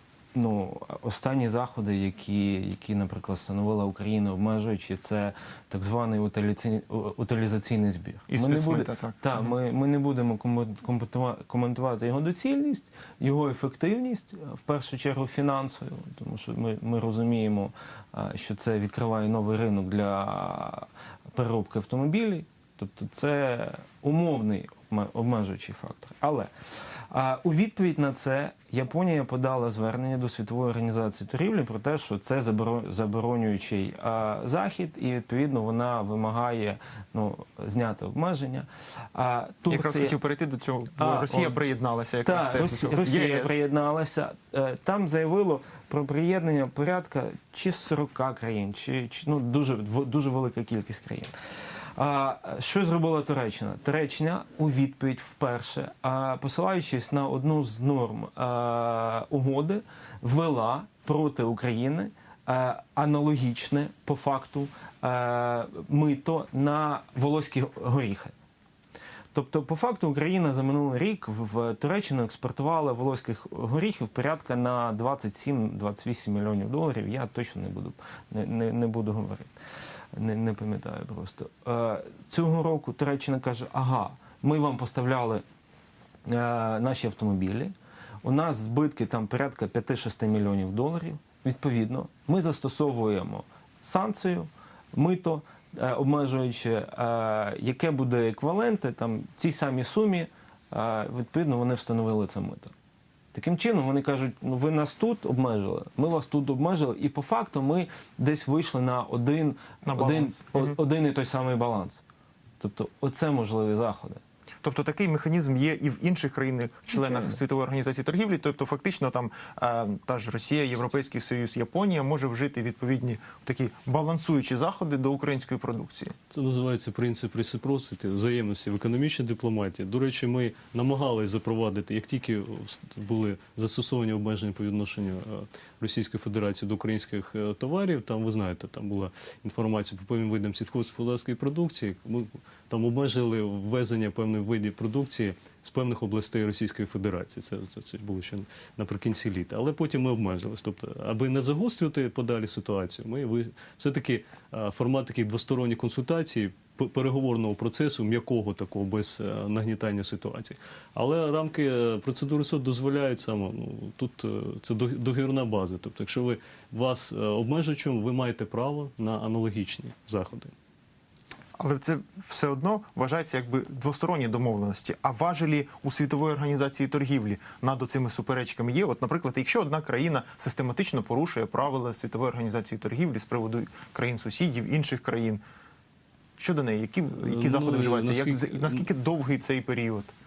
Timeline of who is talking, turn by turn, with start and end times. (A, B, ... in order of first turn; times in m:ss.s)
0:00.3-0:26.5 A
0:08.3-0:09.5 B
0:27.1-0:40.2 A
0:39.7-0:43.6 B
0:41.0-0:41.6 A
0:42.2-0:51.3 A
0:52.0-1:08.3 A
1:09.3-1:19.5 A
1:20.2-1:25.4 A
1:26.2-1:27.7 A
1:28.2-1:42.7 A
1:43.3-1:52.0 A
1:49.8-1:50.8 B
1:52.6-1:54.2 A
1:54.6-2:06.1 B
1:56.9-1:57.4 A
2:06.3-2:50.5 C
2:51.6-3:05.4 B
3:06.4-3:10.1 B
3:07.2-3:08.8 C